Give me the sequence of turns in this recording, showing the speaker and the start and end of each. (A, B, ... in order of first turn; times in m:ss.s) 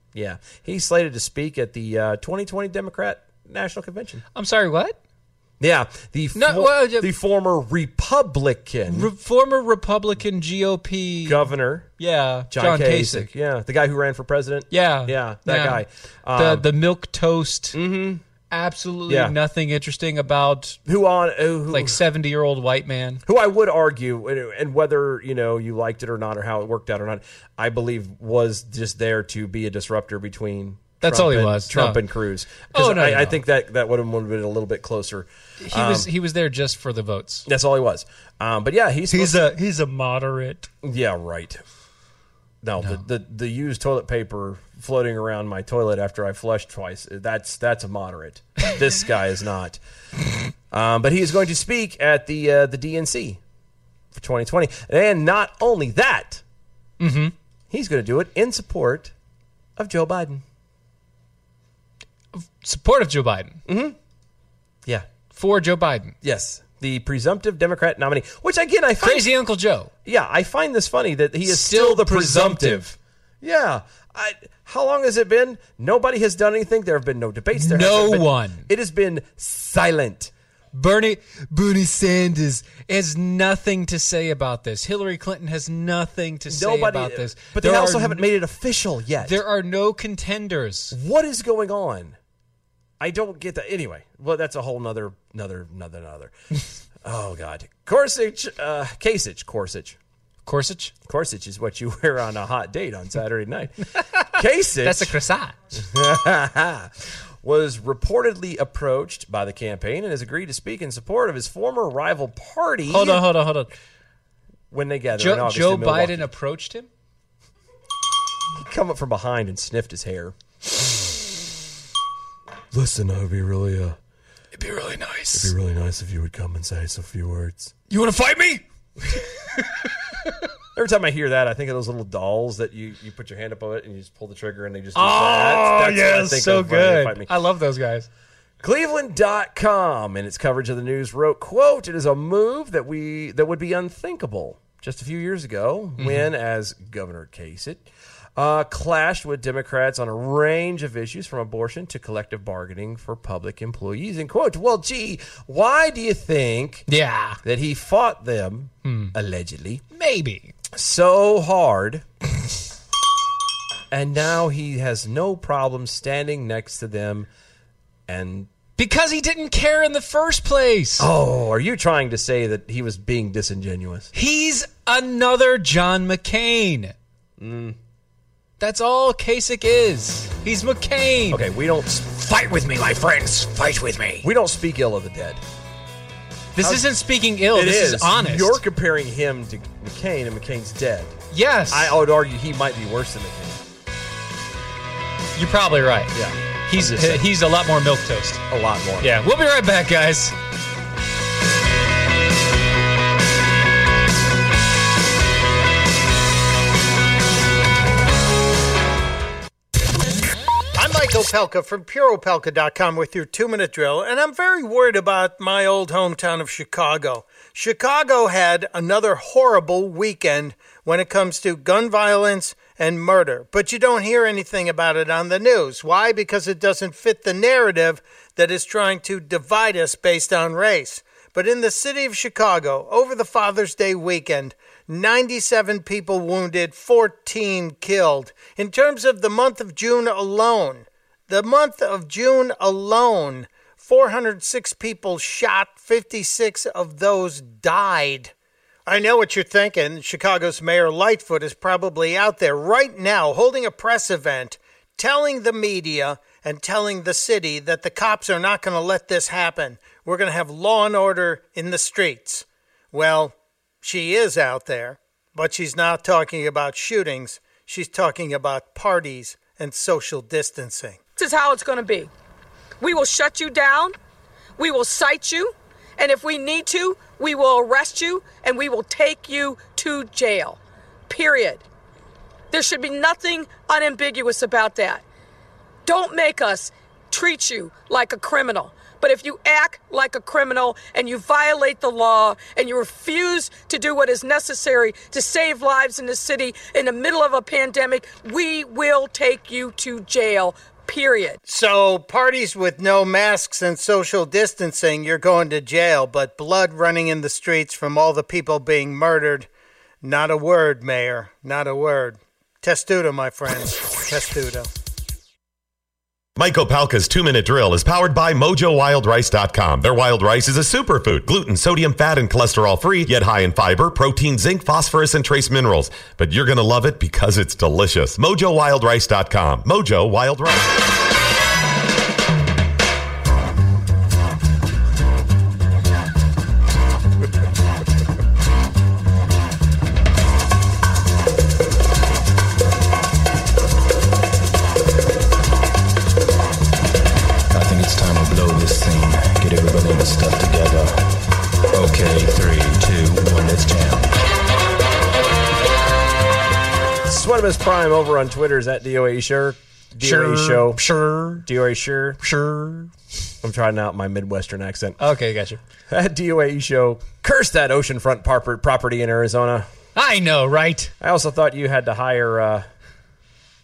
0:00.1-0:04.2 A
0:04.4-0:05.0 B
0:05.6-0:09.1 A
0:06.4-0:07.1 B
0:08.9-0:11.5 B
0:11.2-0:11.9 A
0:12.0-0:13.3 B
0:12.5-0:16.7 A
0:14.7-0:17.8 B
0:17.7-0:18.2 A
0:18.5-0:20.8 B
0:19.1-0:19.4 A
0:20.9-0:22.0 A
0:21.7-0:23.2 B
0:23.3-0:36.1 A
0:31.0-0:32.0 B
0:32.7-0:33.4 B
0:35.6-0:37.5 B
0:37.5-0:39.5 A
0:39.1-0:40.7 B
0:40.8-0:41.6 A
0:42.6-0:49.8 A
0:50.7-0:53.4 A
0:54.1-0:56.4 A
0:57.0-0:57.3 B
0:57.7-0:59.1 A
0:59.8-1:00.4 A
1:02.3-1:03.6 B
1:03.7-1:04.0 A
1:05.3-1:06.2 B
1:06.2-1:09.3 A
1:09.0-1:09.9 B
1:10.0-1:20.3 A
1:11.5-1:12.9 B
1:17.5-1:18.7 B
1:20.7-1:28.3 B
1:26.5-1:29.4 A
1:29.2-1:31.0 B
1:30.9-1:32.2 A
1:33.0-1:36.3 A
1:37.0-1:40.0 A
1:40.5-1:40.9 B
1:41.1-1:45.2 A
1:44.8-1:45.6 B
1:45.7-1:53.2 A
1:52.9-1:53.7 B
1:54.7-1:56.3 A
1:55.2-1:56.9 B
1:58.5-2:01.1 A
2:02.7-2:04.0 A
2:04.6-2:05.5 B
2:05.3-2:07.7 A
2:07.9-2:09.6 B
2:10.8-2:17.3 A
2:15.0-2:18.1 B
2:18.6-2:36.9 A
2:26.0-2:26.3 B
2:36.9-2:37.4 B
2:37.4-2:39.8 A
2:38.8-2:39.1 B
2:39.9-2:40.5 B
2:40.7-2:42.1 A
2:43.9-2:47.3 A
2:48.1-2:48.5 A
2:48.8-2:51.1 B
2:51.0-2:54.1 A
2:54.1-2:57.0 B
2:57.4-2:57.8 A
2:58.6-3:01.4 B
3:01.3-3:02.2 A
3:02.1-3:04.3 B
3:04.2-3:05.4 A
3:06.6-3:08.6 B
3:06.6-3:06.8 A
3:07.5-3:11.2 A
3:11.3-3:12.0 B
3:11.7-3:13.6 A
3:15.4-3:16.2 B
3:16.1-3:17.3 A
3:16.7-3:18.4 B
3:18.5-3:19.2 A
3:19.0-3:20.4 B
3:30.8-4:08.3 C
4:08.9-4:31.0 C
4:31.2-4:32.1 D
4:32.8-4:34.0 D
4:34.6-4:41.6 D
4:42.5-4:45.0 D
4:45.9-5:01.4 D
5:01.5-5:09.5 C
5:10.0-5:14.7 C
5:16.4-5:30.7 E
5:47.5-5:51.2 F
5:51.7-5:54.2 F
5:57.1-6:00.8 A
6:00.0-6:01.5 B
6:01.4-6:02.2 A
6:02.2-6:02.9 B
6:03.4-6:05.0 A
6:05.0-6:05.6 B
6:05.9-6:09.7 A
6:10.0-6:10.9 B
6:11.0-6:12.7 A